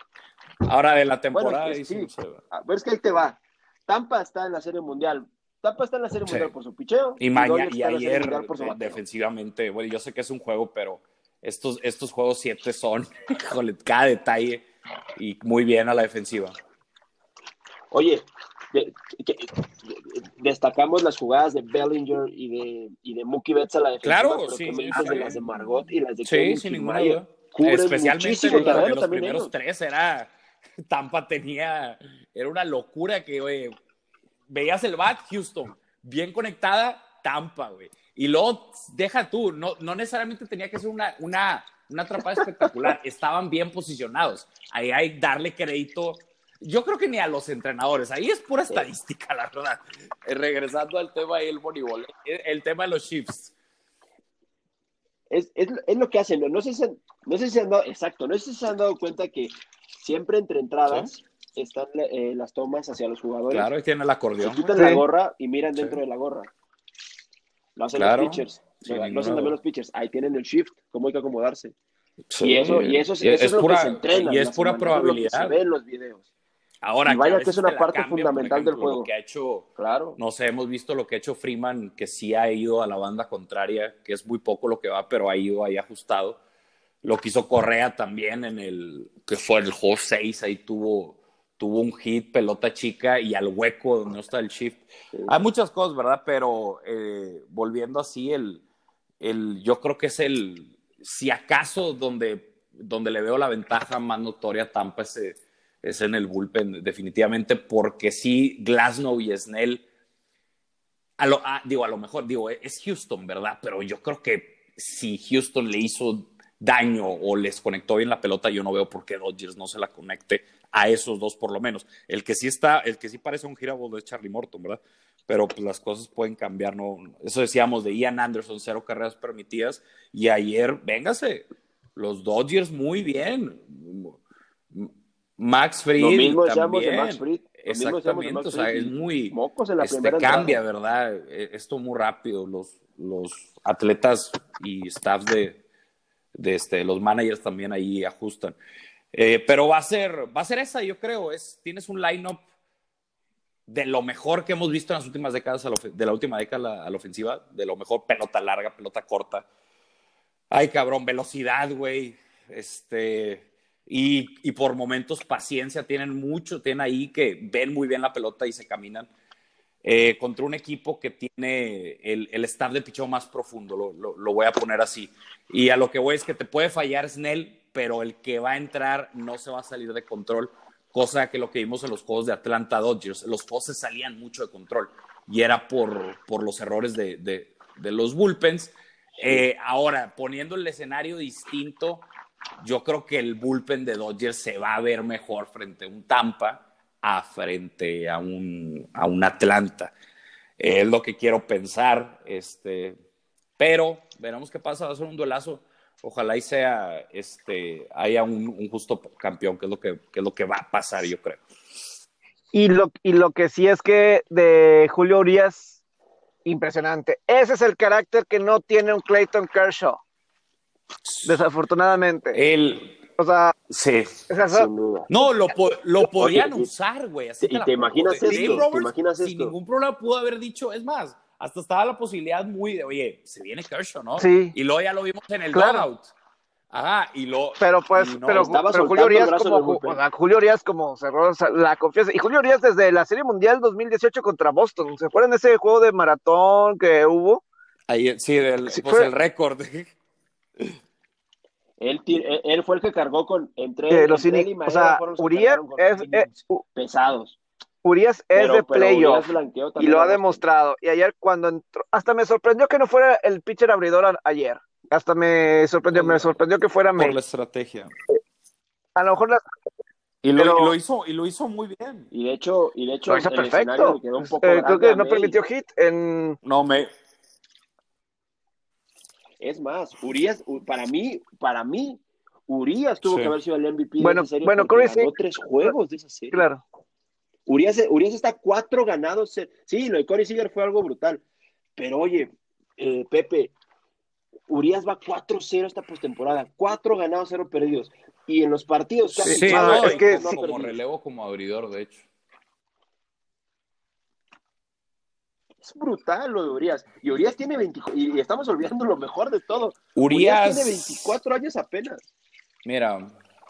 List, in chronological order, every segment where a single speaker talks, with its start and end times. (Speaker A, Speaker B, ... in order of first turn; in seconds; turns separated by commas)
Speaker A: 0.7-2.4, Speaker B: 1.3-9.0, Speaker A: 6.2-6.5, Speaker A: 7.2-16.6, Speaker B: 17.9-29.5, Speaker A: 24.0-25.4, Speaker A: 26.2-30.3, Speaker C: 28.5-28.9, Speaker A: 30.9-33.8, Speaker A: 34.5-53.5, Speaker B: 55.3-63.7, Speaker A: 63.5-64.6, Speaker B: 64.4-66.5, Speaker C: 64.8-65.0, Speaker B: 67.8-71.7, Speaker A: 67.9-69.5, Speaker A: 72.3-75.6, Speaker B: 72.4-76.3, Speaker A: 76.8-86.4, Speaker B: 77.0-79.1, Speaker B: 79.8-80.2, Speaker A: 87.0-98.6, Speaker A: 99.2-109.8, Speaker A: 111.2-131.4, Speaker A: 131.9-134.2, Speaker A: 134.7-145.6, Speaker B: 136.0-140.6, Speaker A: 146.3-148.6, Speaker A: 149.1-152.4, Speaker A: 153.7-159.4, Speaker A: 160.5-169.1, Speaker A: 169.8-192.1, Speaker A: 192.6-199.9, Speaker A: 200.6-203.0, Speaker A: 203.6-211.4, Speaker C: 212.5-215.8, Speaker C: 216.4-220.0, Speaker A: 221.1-221.4, Speaker C: 221.2-222.4, Speaker A: 222.3-222.9, Speaker C: 223.2-223.5, Speaker A: 223.7-224.3, Speaker C: 224.3-224.7, Speaker B: 224.5-225.1, Speaker A: 225.1-236.1, Speaker B: 226.1-226.7, Speaker B: 227.4-229.5, Speaker C: 228.3-228.7, Speaker C: 234.2-234.5, Speaker C: 235.5-235.9, Speaker A: 236.7-238.6, Speaker C: 237.6-247.4, Speaker B: 238.3-240.0, Speaker A: 247.9-249.9, Speaker C: 248.7-249.1, Speaker B: 251.8-257.4, Speaker C: 253.9-256.6, Speaker C: 257.8-259.2, Speaker B: 258.3-260.4, Speaker C: 259.8-267.1, Speaker A: 267.0-267.9, Speaker C: 268.9-269.4, Speaker A: 270.2-272.1, Speaker C: 270.3-270.7, Speaker B: 272.1-275.4, Speaker C: 273.1-276.4, Speaker A: 276.4-276.9, Speaker B: 279.4-286.4, Speaker A: 283.0-283.3, Speaker C: 284.0-285.1, Speaker C: 286.3-286.6, Speaker B: 287.5-291.2, Speaker B: 291.8-293.5, Speaker B: 294.5-300.8, Speaker A: 299.1-302.1, Speaker C: 299.2-300.2, Speaker B: 305.6-312.0, Speaker A: 309.9-311.1, Speaker A: 312.6-313.1